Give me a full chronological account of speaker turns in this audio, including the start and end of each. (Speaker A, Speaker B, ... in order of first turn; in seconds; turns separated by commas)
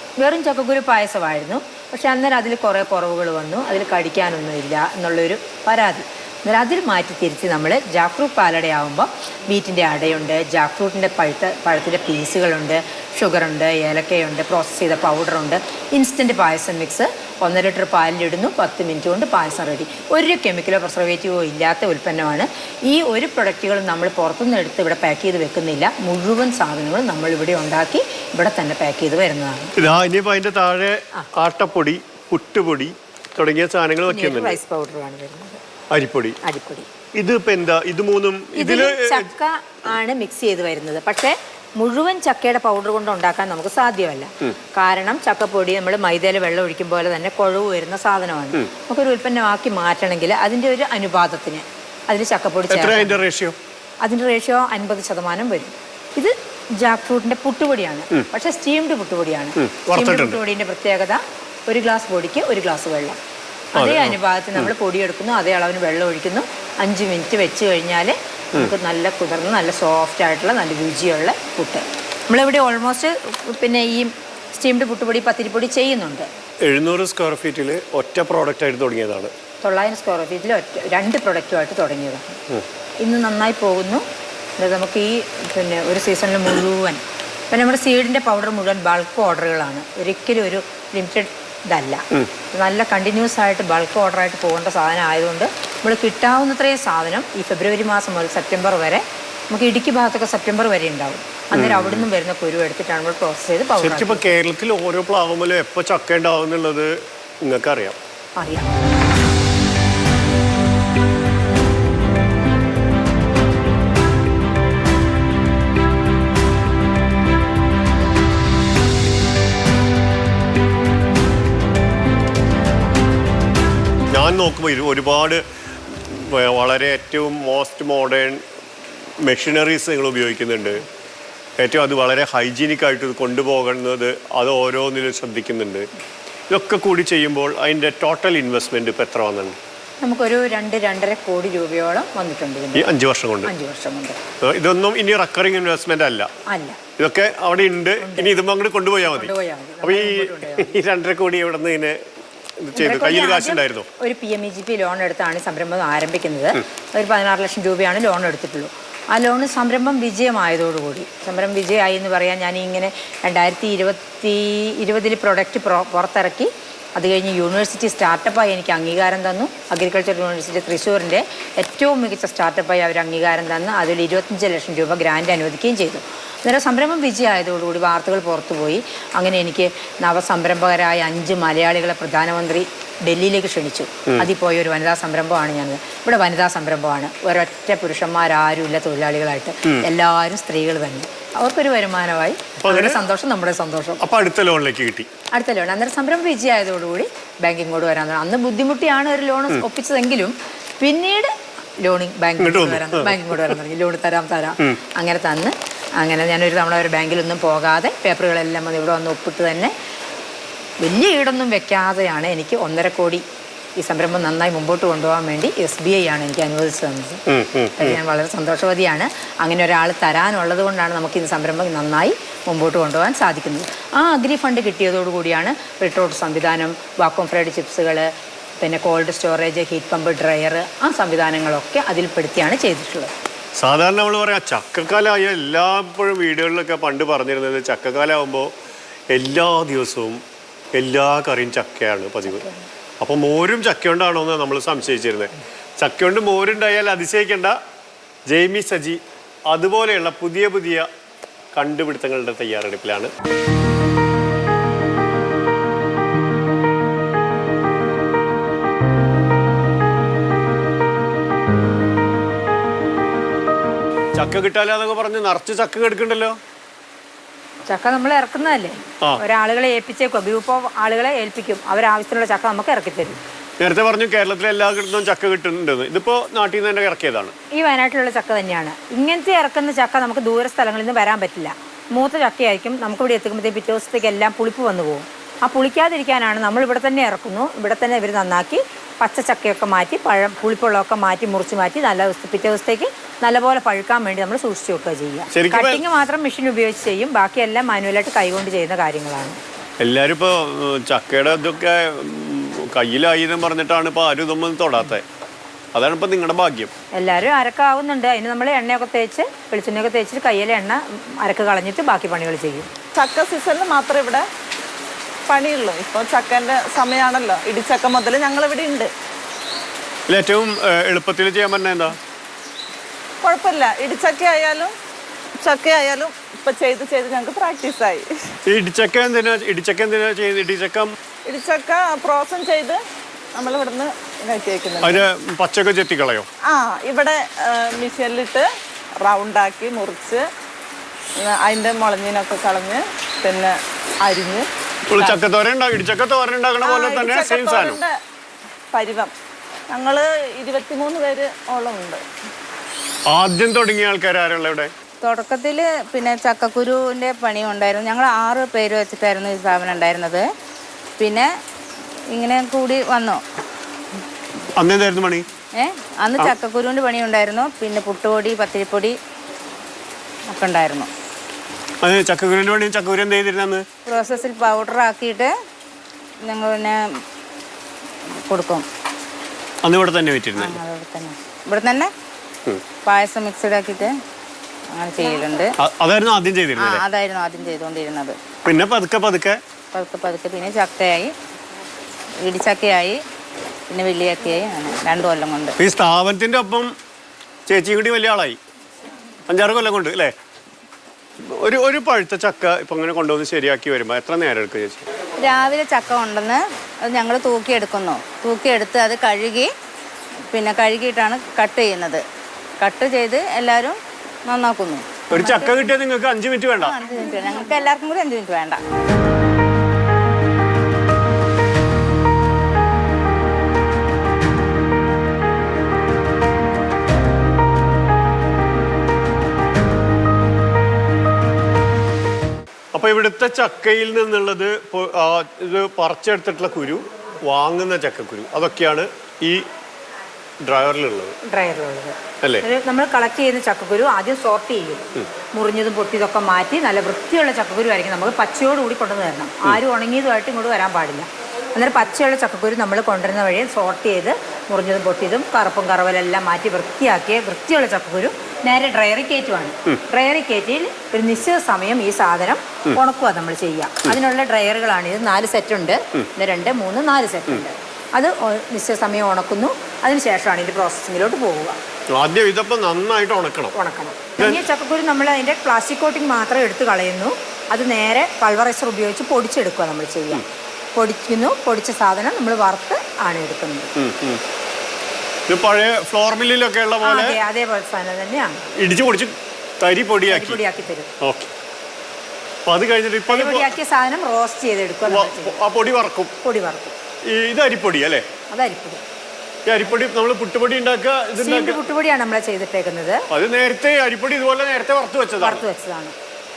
Speaker A: 0.2-29.8, Speaker B: 29.8-34.6, Speaker A: 34.1-35.6, Speaker B: 35.9-36.4, Speaker A: 36.4-36.9, Speaker B: 37.1-39.3, Speaker A: 38.6-53.2, Speaker B: 52.7-53.6, Speaker A: 54.0-63.2, Speaker B: 59.6-60.4, Speaker A: 63.7-76.3, Speaker B: 63.8-64.7, Speaker B: 76.6-79.3, Speaker A: 79.6-82.4, Speaker A: 83.0-84.0, Speaker A: 84.6-104.3, Speaker B: 101.5-102.1, Speaker B: 103.8-108.0, Speaker A: 108.4-108.7, Speaker B: 124.1-128.4, Speaker B: 129.2-130.9, Speaker B: 131.6-135.9, Speaker B: 136.5-139.6, Speaker A: 140.0-142.9, Speaker B: 142.7-143.5, Speaker A: 143.4-144.2, Speaker B: 144.4-146.3, Speaker A: 146.5-146.8, Speaker B: 147.0-149.3, Speaker A: 148.0-148.4, Speaker A: 149.1-150.8, Speaker B: 149.8-152.0, Speaker B: 152.6-153.9, Speaker A: 152.8-194.0, Speaker B: 192.6-193.0, Speaker B: 194.0-195.1, Speaker A: 195.3-209.7, Speaker B: 202.4-203.6, Speaker A: 210.8-213.2, Speaker A: 213.8-217.2, Speaker B: 217.3-218.0, Speaker A: 217.8-233.1, Speaker B: 233.6-238.5, Speaker B: 239.1-240.2, Speaker B: 240.8-242.5, Speaker A: 242.3-242.7, Speaker B: 243.0-247.6, Speaker B: 248.3-250.9, Speaker B: 251.5-253.1, Speaker B: 264.1-266.4, Speaker A: 267.7-273.2, Speaker B: 273.6-277.3, Speaker A: 277.5-299.4, Speaker B: 295.3-295.8, Speaker B: 299.8-305.0, Speaker B: 305.7-306.7, Speaker A: 307.0-312.7, Speaker C: 312.9-314.3, Speaker C: 315.3-318.9, Speaker B: 320.1-322.0, Speaker C: 323.2-324.7, Speaker C: 325.4-328.4, Speaker B: 328.5-330.9, Speaker C: 331.2-332.8, Speaker C: 333.4-335.0, Speaker B: 334.8-336.3, Speaker C: 336.4-338.5, Speaker C: 339.0-340.3, Speaker C: 341.2-345.2, Speaker B: 344.9-347.8, Speaker C: 346.6-348.0, Speaker C: 348.7-349.1, Speaker C: 349.7-352.0, Speaker B: 353.1-354.7, Speaker D: 355.0-360.3, Speaker D: 361.0-361.3, Speaker D: 362.1-363.2, Speaker B: 364.6-365.3, Speaker D: 365.6-368.9, Speaker D: 370.3-370.9, Speaker B: 371.8-373.7, Speaker D: 373.9-375.3, Speaker D: 376.2-377.0, Speaker D: 378.1-378.7, Speaker B: 379.6-380.6, Speaker D: 380.4-381.9, Speaker D: 382.8-383.9, Speaker D: 384.7-385.5, Speaker B: 385.6-386.8, Speaker D: 386.6-388.2, Speaker B: 388.4-389.4, Speaker D: 389.7-391.1, Speaker D: 392.2-393.0, Speaker D: 393.7-395.6, Speaker B: 395.6-396.7, Speaker B: 397.5-398.4, Speaker B: 399.3-400.1, Speaker B: 401.2-404.9, Speaker D: 405.2-409.5, Speaker D: 410.3-412.0, Speaker D: 412.6-415.6, Speaker B: 415.1-416.8, Speaker D: 416.6-418.6, Speaker B: 432.7-439.5, Speaker B: 440.4-441.1, Speaker A: 441.2-471.6, Speaker B: 471.9-473.6, Speaker A: 473.6-480.2, Speaker B: 474.2-474.4, Speaker A: 480.8-483.7, Speaker B: 483.8-484.2, Speaker B: 485.3-487.2, Speaker A: 486.8-488.5, Speaker B: 488.6-490.4, Speaker A: 490.1-490.9, Speaker B: 491.0-491.3, Speaker B: 492.5-493.6, Speaker A: 493.1-495.4, Speaker B: 494.9-496.1, Speaker A: 496.2-496.8, Speaker B: 497.1-498.1, Speaker A: 498.3-498.8, Speaker B: 499.5-501.6, Speaker A: 501.2-503.1, Speaker B: 503.1-505.4, Speaker A: 505.2-505.9